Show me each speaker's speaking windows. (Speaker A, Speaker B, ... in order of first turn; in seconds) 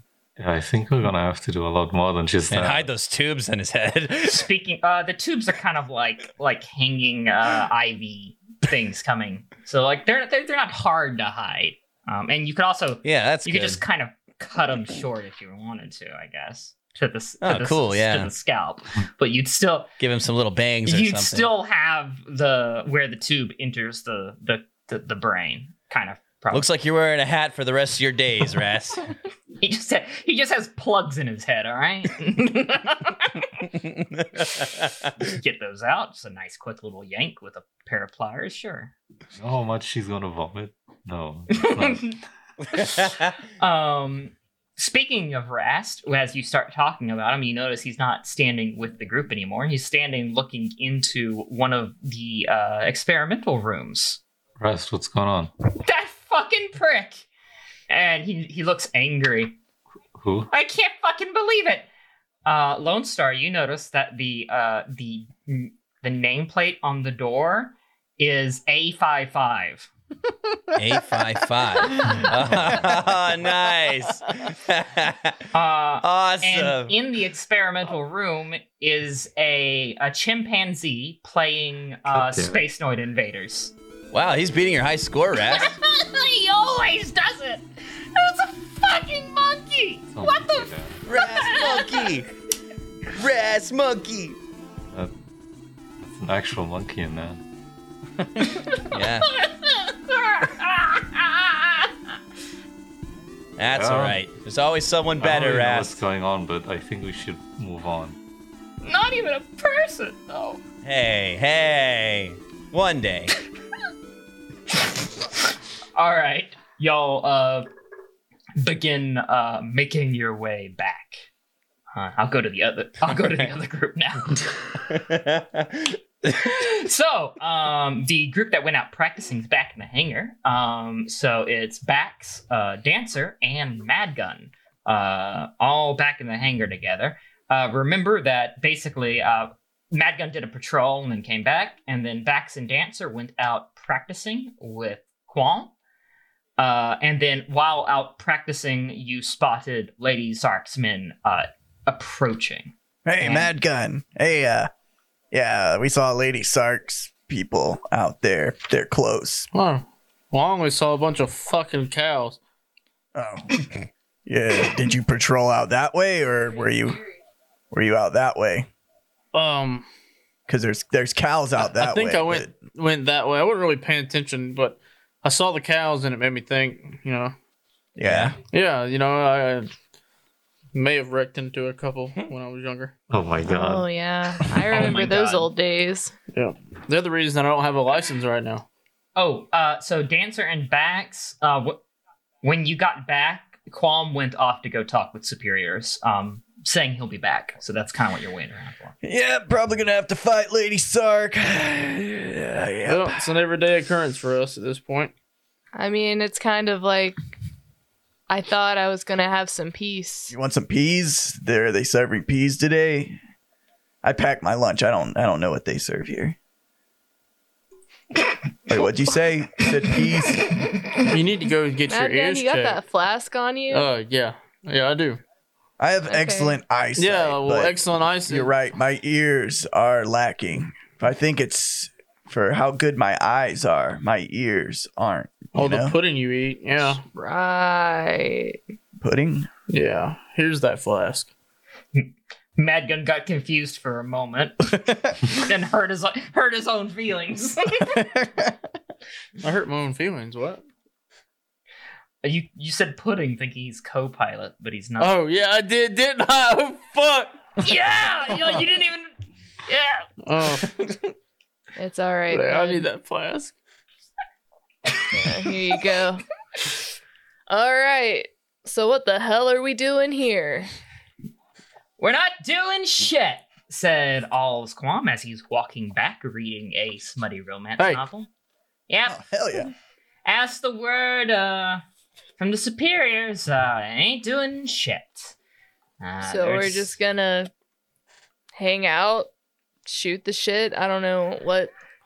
Speaker A: 0.4-2.9, 39.4-42.2, 54.6-55.5, 60.2-60.5, 82.1-82.6, 90.1-91.0, 96.0-97.4, 103.7-104.2, 105.2-108.2, 183.1-183.9
Speaker B: 2.5-4.5, 13.0-13.8, 17.4-18.3, 20.0-21.5, 26.5-29.1, 34.0-35.1, 42.8-43.3, 70.7-75.4, 76.0-76.9, 84.1-85.7, 91.0-92.3, 93.1-94.4, 98.9-99.3, 103.6-106.0, 110.8-113.3, 124.9-125.9, 178.0-178.4
Speaker C: 4.3-19.9, 20.9-26.7, 29.6-33.6, 35.2-38.9, 41.6-42.2, 42.8-43.0, 43.6-54.2, 55.8-57.3, 57.9-59.6, 60.5-61.9, 62.4-69.9, 75.5-83.7, 85.5-92.1, 98.7-101.9, 108.8-110.6, 115.9-117.7, 118.6-121.2, 121.9-124.9, 126.3-145.7, 146.6-153.5, 184.7-185.5, 189.2-191.8, 192.4-198.9, 241.9-248.1, 252.2-255.1, 257.6-259.1, 259.6-260.1, 272.0-278.3, 278.9-279.2, 280.2-281.8, 282.4-285.3, 286.0-286.9
Speaker D: 153.0-154.7, 155.3-159.5, 163.1-163.7, 164.2-167.0, 167.7-168.7, 170.5-172.5, 178.0-178.3, 199.0-203.3, 210.3-213.2, 214.0-216.3, 218.7-220.5, 225.8-227.8, 228.3-235.9, 239.0-239.5, 279.1-279.7
Speaker E: 159.5-162.4, 169.3-169.8, 171.7-177.3, 178.5-179.7, 180.7-182.9, 186.3-188.6, 202.8-205.1, 221.1-222.8, 223.7-225.2, 226.9-228.5, 235.5-237.0, 239.7-241.3, 249.4-250.6, 255.0-257.5, 260.2-261.1, 262.3-263.5, 277.8-278.0
Speaker F: 183.4-186.1, 205.7-207.2, 208.3-210.3, 221.9-223.9, 226.1-226.6, 237.0-238.6, 261.8-262.8, 265.1-266.2, 267.5-270.7, 286.2-287.5, 288.5-289.3, 289.9-291.7